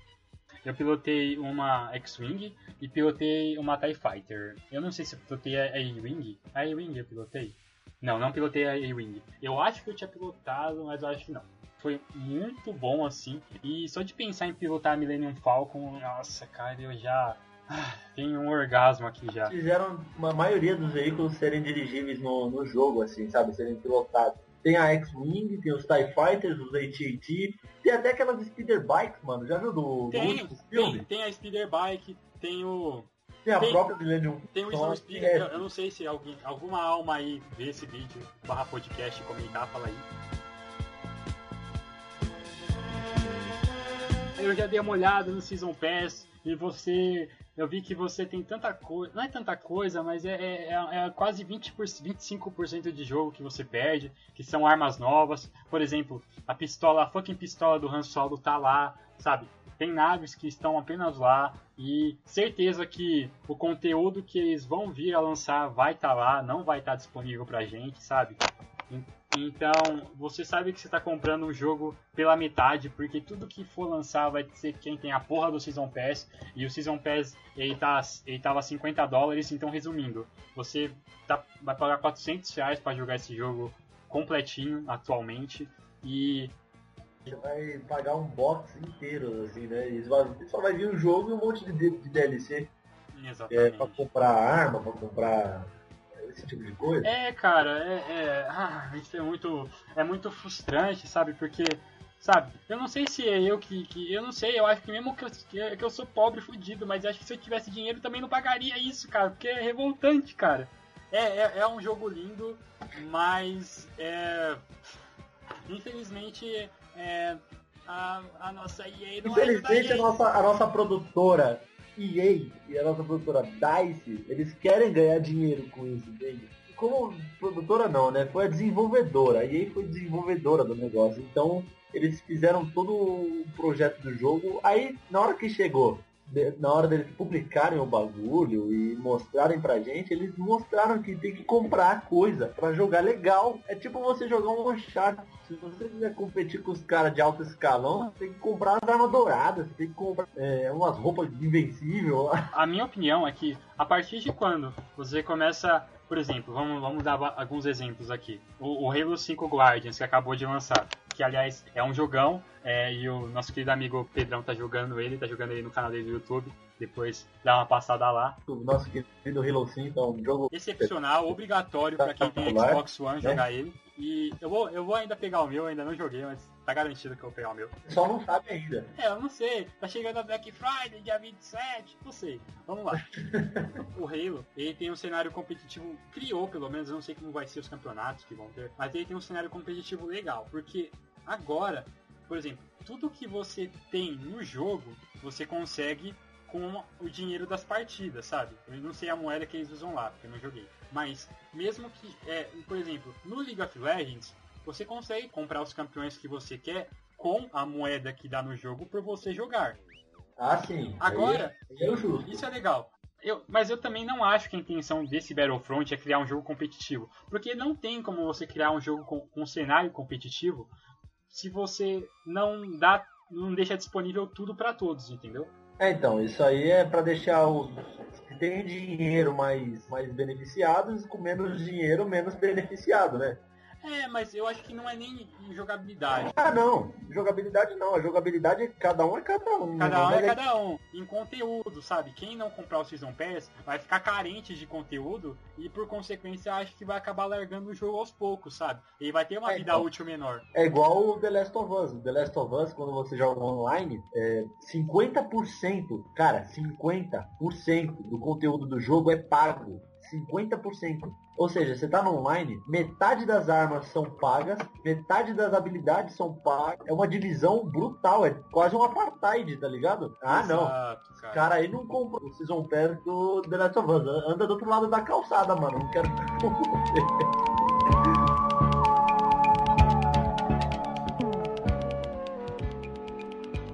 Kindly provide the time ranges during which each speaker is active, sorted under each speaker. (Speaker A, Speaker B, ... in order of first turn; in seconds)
Speaker A: 0.6-19.5, 30.1-33.8, 34.5-40.1, 44.4-86.5, 93.1-94.1, 97.0-114.6, 115.7-120.1, 152.5-168.4, 170.5-177.7, 178.9-183.1, 183.9-209.8, 211.0-220.7, 221.3-225.5, 233.8-236.5, 239.8-250.4, 270.3-271.5
Speaker B: 19.4-31.1, 33.4-35.6, 87.2-92.7, 93.5-95.7, 96.2-97.1, 119.2-152.5, 168.5-170.9, 172.0-173.4, 177.8-178.9, 183.1-183.8, 210.4-212.4, 225.8-233.4, 236.2-240.4, 249.4-249.9, 250.5-270.8, 271.3-277.3